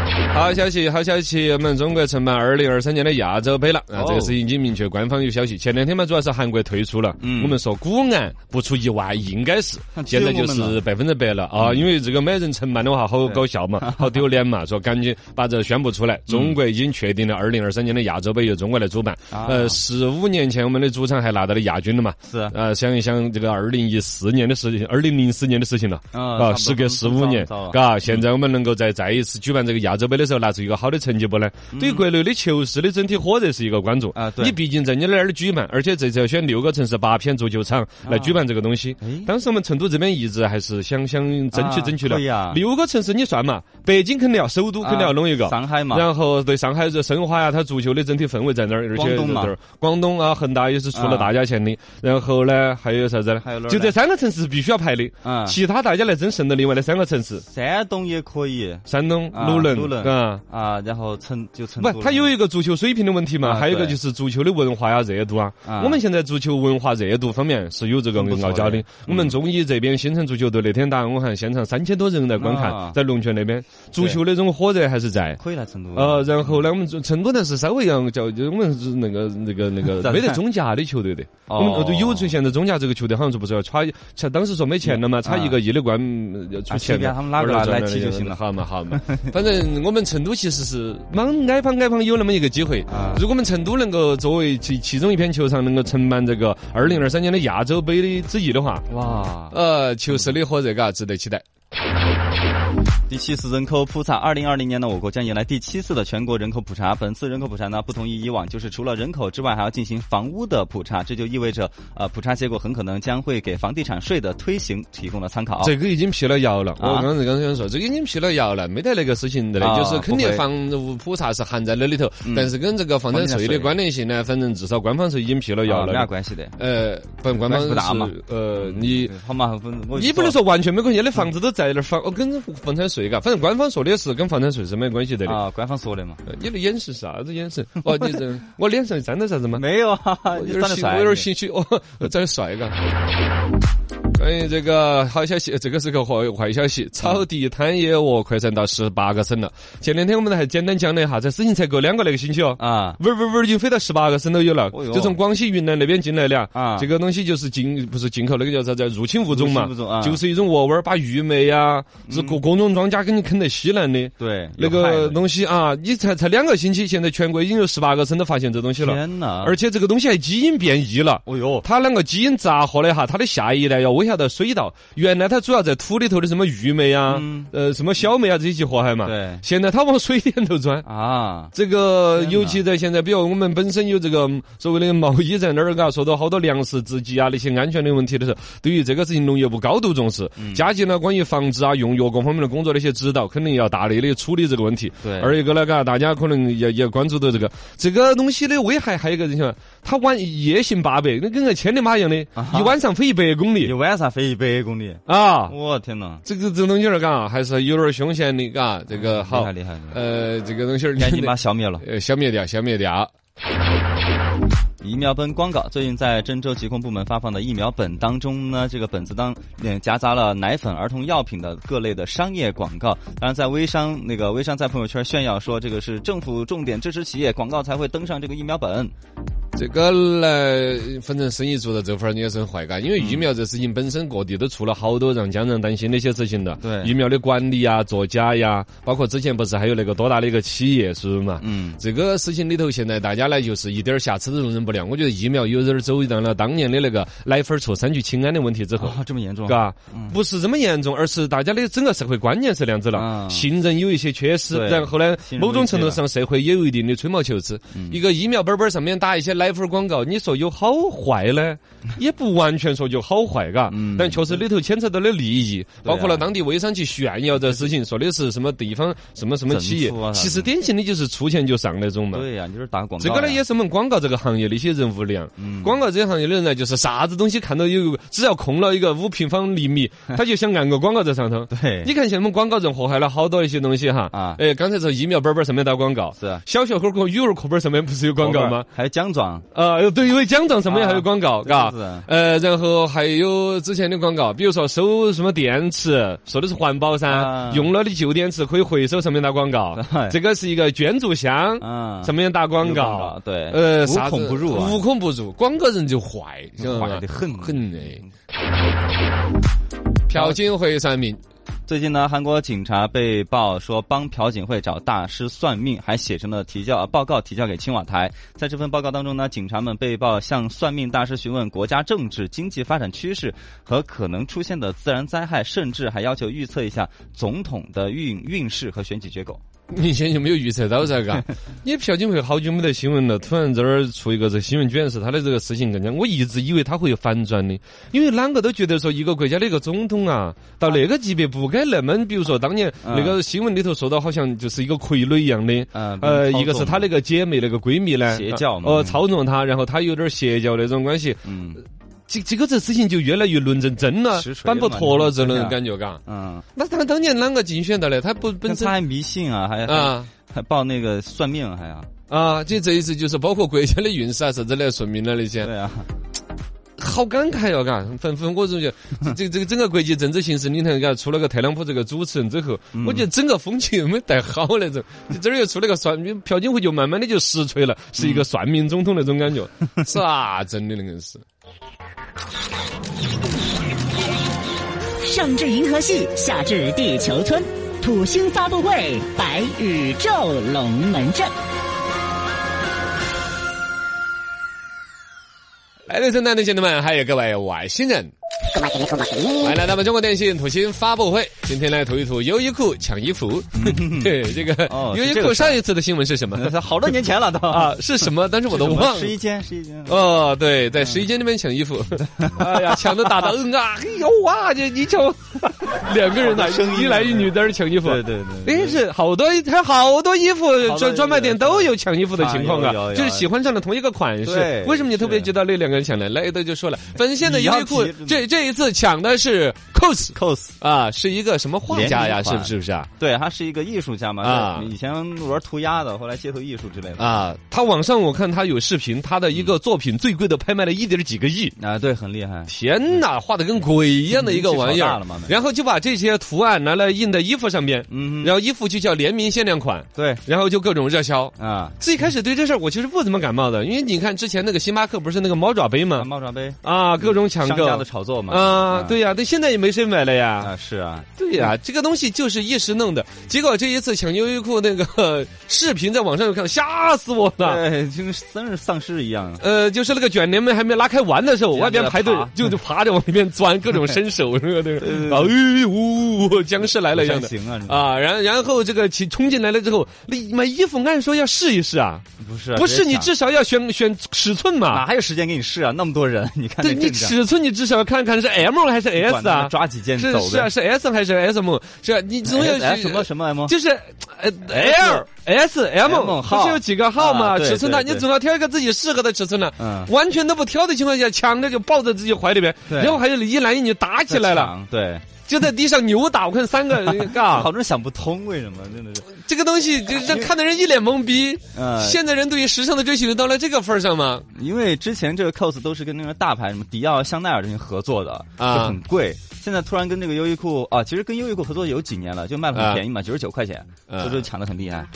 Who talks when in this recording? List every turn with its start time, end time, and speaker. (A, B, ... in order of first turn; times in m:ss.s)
0:00.3-0:57.4 A
0:04.0-0:04.4 B
0:07.2-0:07.6 B
0:10.0-0:10.8 B
0:11.6-0:11.8 B
0:13.3-0:14.1 B
0:16.3-0:16.6 B
0:19.3-0:19.8 B
0:22.3-0:22.6 B
0:26.1-0:28.2 B
0:31.7-0:32.1 B
0:34.2-0:34.6 B
0:38.0-0:38.4 B
0:39.0-0:39.3 B
0:41.5-0:42.6 B
0:44.8-0:46.1 B
0:49.0-0:49.6 B
0:50.9-0:51.3 B
0:53.4-0:54.0 B
0:55.2-0:55.6 B
0:57.5-1:02.3 B
0:58.9-1:00.4 A
1:01.8-1:15.4 A
1:03.4-1:04.0 B
1:05.6-1:06.0 B
1:08.1-1:09.4 B
1:12.4-1:13.0 B
1:15.4-1:16.6 B
1:16.0-1:38.9 A
1:20.0-1:20.4 B
1:21.5-1:22.3 B
1:24.9-1:25.6 B
1:26.7-1:29.3 B
1:32.9-1:33.3 B
1:38.9-1:39.6 B
1:39.5-1:41.4 A
1:43.1-1:55.7 B
1:55.6-2:09.2 A
1:56.8-1:57.1 B
1:59.6-2:00.4 B
2:02.2-2:02.6 B
2:03.1-2:03.7 B
2:05.7-2:06.6 B
2:07.3-2:10.4 B
2:09.9-2:15.4 A
2:15.2-2:16.2 B
2:16.2-2:19.6 A
2:19.6-2:21.3 B
2:20.4-2:22.8 A
2:24.1-3:00.9 A
2:32.6-2:33.0 B
2:34.7-2:35.2 B
2:36.5-2:36.9 B
2:39.3-2:40.2 B
2:42.1-2:42.4 B
2:44.2-2:45.2 B
2:48.8-2:49.6 B
2:51.3-2:51.7 B
2:57.1-2:57.5 B
2:59.0-2:59.4 B
3:00.8-3:01.5 B
3:01.5-3:23.7 A
3:02.2-3:02.6 B
3:10.4-3:10.6 B
3:15.0-3:15.4 B
3:22.4-3:22.8 B
3:23.6-3:26.2 B
3:25.1-3:25.5 A
3:26.2-3:33.1 A
3:29.1-3:30.0 B
3:31.0-3:31.8 B
3:34.8-3:48.9 B
3:49.6-4:32.3 A
3:53.0-3:53.2 B
3:56.6-3:56.9 B
4:01.4-4:01.8 B
4:08.8-4:10.2 B
4:12.9-4:13.5 B
4:14.5-4:16.0 B
4:17.7-4:18.0 B
4:23.7-4:24.4 B
4:25.8-4:26.3 B
4:29.5-4:30.5 B
4:32.1-4:33.4 B
4:33.0-4:48.7 A
4:35.4-4:35.8 B
4:41.5-4:41.9 B
4:44.1-4:44.4 B
4:46.2-4:46.4 B
4:48.2-4:49.4 B
4:49.5-5:08.0 A
4:50.7-4:52.1 B
4:57.1-4:57.7 B
4:59.8-5:00.2 B
5:01.6-5:04.8 B
5:06.6-5:08.1 B
5:10.1-5:11.2 A
5:10.1-5:10.4 B
5:11.7-5:29.4 B
5:29.7-5:51.3 A
5:42.8-5:43.2 B
5:45.7-5:46.9 B
5:48.1-5:49.0 B
5:51.2-5:51.6 B
5:52.1-5:56.0 A
5:54.1-5:56.4 B
5:56.6-5:58.8 A
5:58.4-6:01.9 B
5:59.7-6:00.1 A
6:02.1-6:05.5 A
6:05.4-6:05.9 B
6:06.8-6:21.2 A
6:12.7-6:13.1 B
6:18.0-6:18.3 B
6:25.0-6:31.3 C
6:35.9-6:38.1 A
6:38.5-6:39.5 C
6:39.4-6:46.5 A
6:43.6-6:45.6 B
6:46.3-6:47.8 B
6:47.5-6:49.2 A
6:48.5-6:50.1 B
6:49.9-7:12.9 A
6:52.1-6:53.0 B
6:56.2-6:58.8 B
7:00.6-7:03.3 B
7:04.2-7:05.3 B
7:07.2-7:08.2 B
7:10.2-7:10.6 B
7:11.7-7:17.2 B
7:14.2-7:14.7 A
7:17.0-7:21.6 A
7:21.6-7:22.5 B
7:22.5-7:36.1 A
7:24.1-7:25.4 B
7:27.9-7:28.3 B
7:30.0-7:30.2 B
7:31.4-7:31.8 B
7:36.0-7:39.0 B
7:36.6-7:40.5 A
7:40.4-7:41.1 B
7:41.2-7:47.6 A
7:47.4-7:49.4 B
7:49.4-8:04.9 A
7:51.5-7:52.4 B
7:54.8-7:55.4 B
7:56.9-7:57.9 B
8:02.2-8:03.1 B
8:04.7-8:07.2 B
8:06.6-8:24.5 A
8:09.0-8:10.5 B
8:12.3-8:13.6 B
8:14.5-8:15.1 B
8:15.8-8:18.1 B
8:19.6-8:19.9 B
8:22.7-8:23.0 B
8:24.1-8:25.1 B
8:25.3-8:27.5 A
8:27.0-8:29.1 B
8:29.1-8:34.3 A
8:30.0-8:30.3 B
8:31.5-8:32.0 B
8:34.3-8:44.9 B
8:38.4-8:38.8 A
8:42.5-8:42.8 A
8:43.9-8:44.3 A